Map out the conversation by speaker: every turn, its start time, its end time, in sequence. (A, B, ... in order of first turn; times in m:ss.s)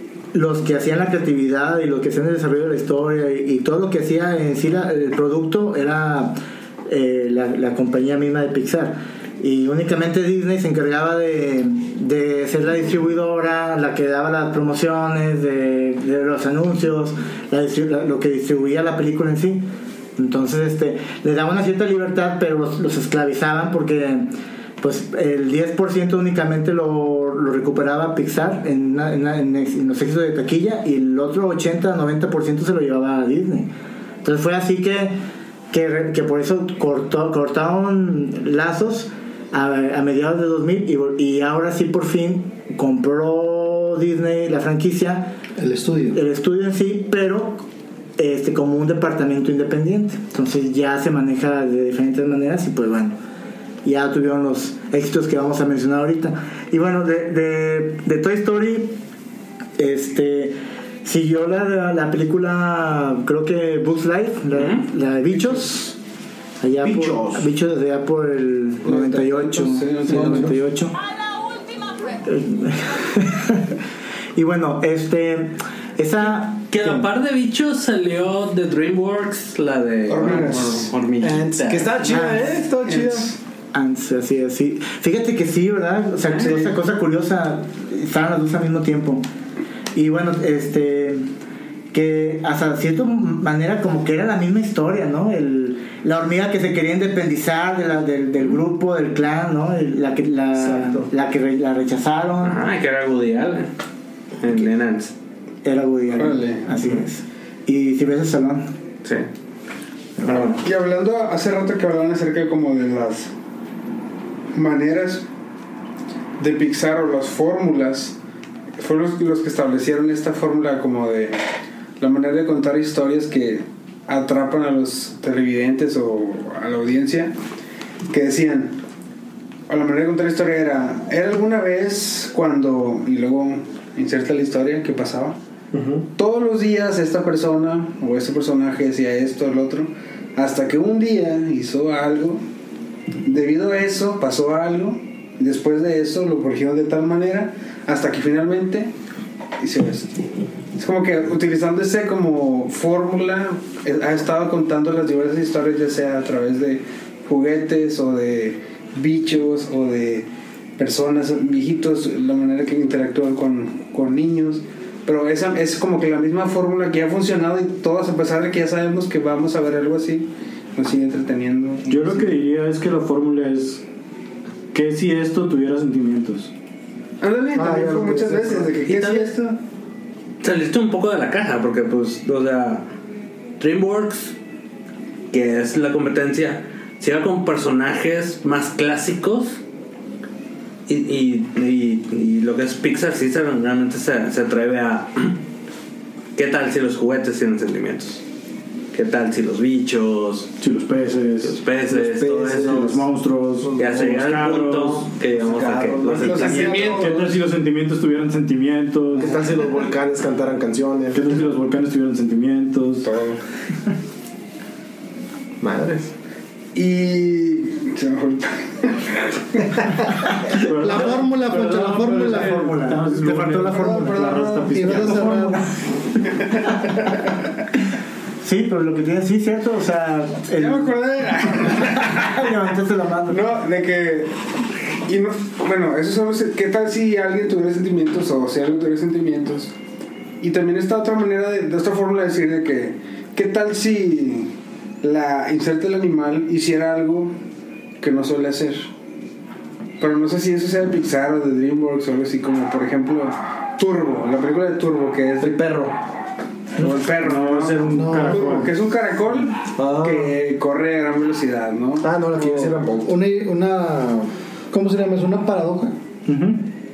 0:00.3-0:33.7 A
0:34.2-0:35.2 A
0:35.7-0:45.3 A
0:45.6-0:46.2 B
0:46.1-0:47.6 A
0:48.2-0:53.2 A
0:53.8-0:59.0 A
0:59.8-1:06.0 A
1:04.5-1:04.8 C
1:06.6-1:11.0 A
1:06.8-1:07.5 D
1:08.8-1:10.6 E
1:12.2-1:13.8 A
1:14.4-1:17.0 A
1:16.7-1:21.9 C
1:20.1-1:20.9 E
1:20.2-1:23.3 D
1:22.0-1:22.6 A
1:22.8-1:23.4 E
1:23.7-1:29.2 A
1:29.9-1:31.2 A
1:31.9-1:42.6 A
1:40.6-1:41.1 D
1:42.4-1:43.7 C
1:44.4-1:45.1 C
1:45.6-1:48.7 A
1:46.2-1:46.7 E
1:50.2-1:50.6 A
1:50.3-1:50.6 C
1:50.5-1:53.3 E
1:54.5-1:55.2 E
1:56.4-1:58.2 E
1:58.8-2:01.4 E
2:02.0-2:07.4 E
2:08.1-2:08.8 E
2:09.7-2:15.4 E
2:15.7-2:16.0 D
2:16.1-2:22.4 E
2:23.2-2:28.9 E
2:29.6-2:30.2 E
2:30.8-2:40.3 E
2:40.8-2:52.3 E
2:51.9-2:53.8 F
2:54.7-2:56.5 F
2:57.2-2:59.6 E
2:57.5-2:59.2 D
3:00.4-3:02.8 C
3:03.6-3:04.3 C
3:05.3-3:09.6 C
3:10.9-3:15.4 C
3:16.4-3:18.2 C
3:18.9-3:20.5 C
3:20.6-3:21.6 F
3:21.4-3:22.9 C
3:21.9-3:23.0 D
3:22.6-3:25.1 F
3:23.6-3:24.1 D
3:23.8-3:26.8 C
3:25.4-3:27.3 D
3:26.2-3:27.3 E
3:26.9-3:29.4 F
3:29.2-3:31.2 D
3:31.1-3:33.1 F
3:33.0-3:33.4 E
3:35.6-3:36.1 D
3:36.7-3:39.9 E
3:40.5-3:45.6 F
3:40.7-3:42.7 B
3:42.3-3:44.3 A
3:43.7-3:45.1 E
3:44.7-3:45.7 B
3:46.5-3:46.9 E
3:48.4-3:53.5 A
3:50.5-3:52.4 E
3:53.3-3:59.7 E
4:00.4-4:07.4 E
4:08.0-4:08.9 E
4:10.0-4:15.6 E
4:15.4-4:15.9 D
4:16.8-4:22.8 E
4:16.8-4:18.7 F
4:17.9-4:18.6 B
4:19.8-4:20.3 D
4:22.0-4:23.1 D
4:23.0-4:25.9 B
4:26.2-4:26.7 F